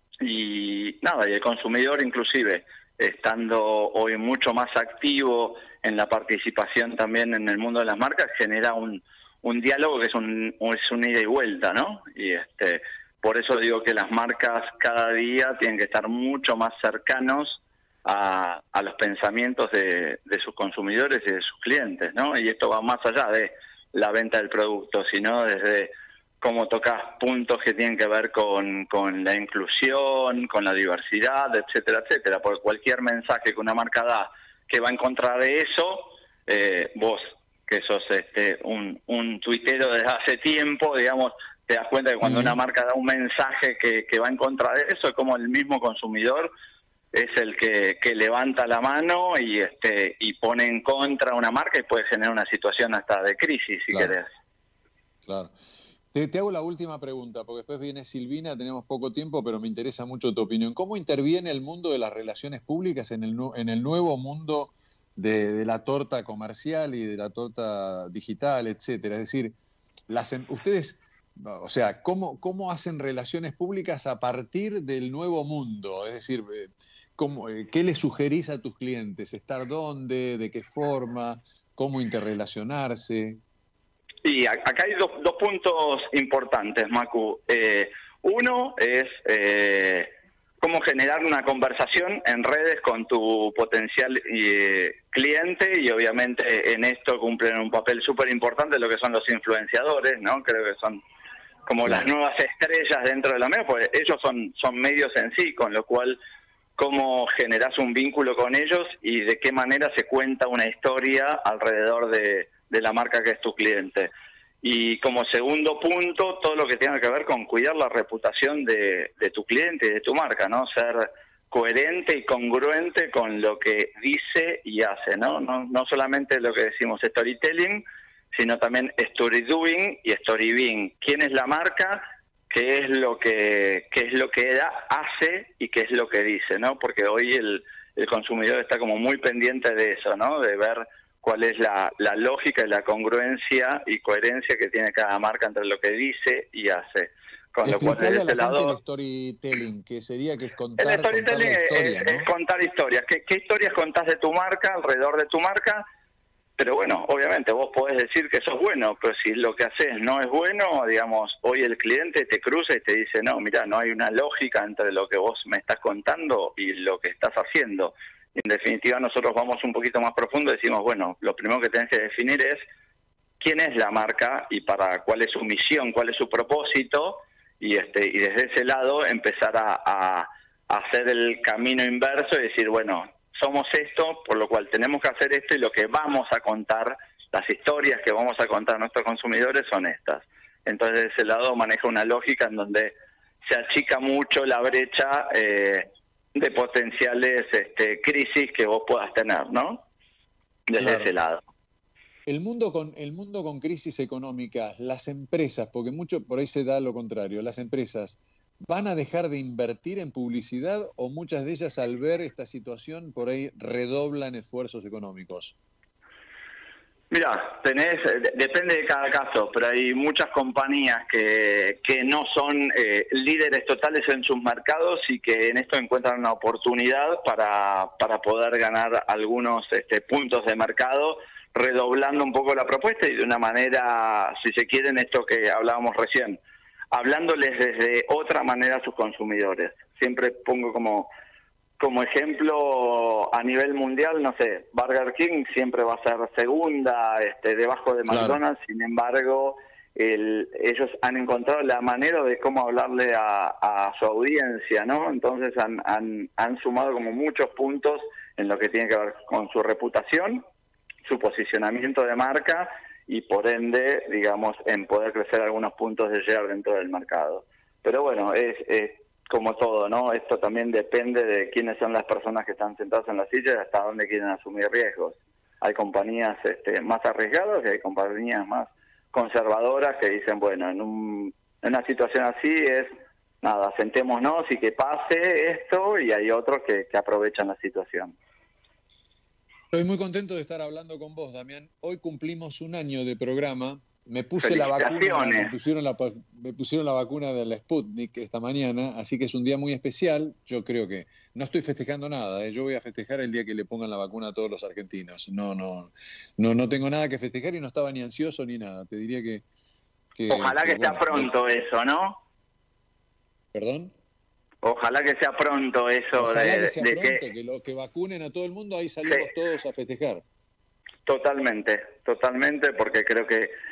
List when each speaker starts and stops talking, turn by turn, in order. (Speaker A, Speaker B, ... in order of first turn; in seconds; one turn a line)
Speaker A: 0.2-46.5
Speaker B: 42.2-42.6
Speaker A: 47.1-54.3
Speaker B: 55.2-55.5
Speaker B: 56.1-69.5
Speaker B: 70.1-83.4
Speaker A: 84.2-101.0
Speaker A: 101.7-106.2
Speaker A: 106.8-114.1
Speaker A: 114.6-148.7
Speaker B: 147.6-152.3
Speaker A: 150.8-155.8
Speaker A: 156.6-172.6
Speaker A: 173.4-192.9
Speaker A: 193.4-199.8
Speaker A: 200.7-201.4
Speaker B: 200.8-201.1
Speaker B: 202.3-215.6
Speaker A: 217.1-236.4
Speaker A: 236.9-241.1
Speaker A: 241.8-260.4
Speaker B: 248.1-248.4
Speaker A: 261.1-288.1
Speaker B: 289.7-309.4
Speaker A: 294.4-295.5
Speaker B: 310.1-311.3
Speaker A: 310.3-312.2
Speaker B: 313.5-313.9
Speaker A: 314.6-317.2
Speaker B: 316.1-320.2
Speaker A: 321.1-323.5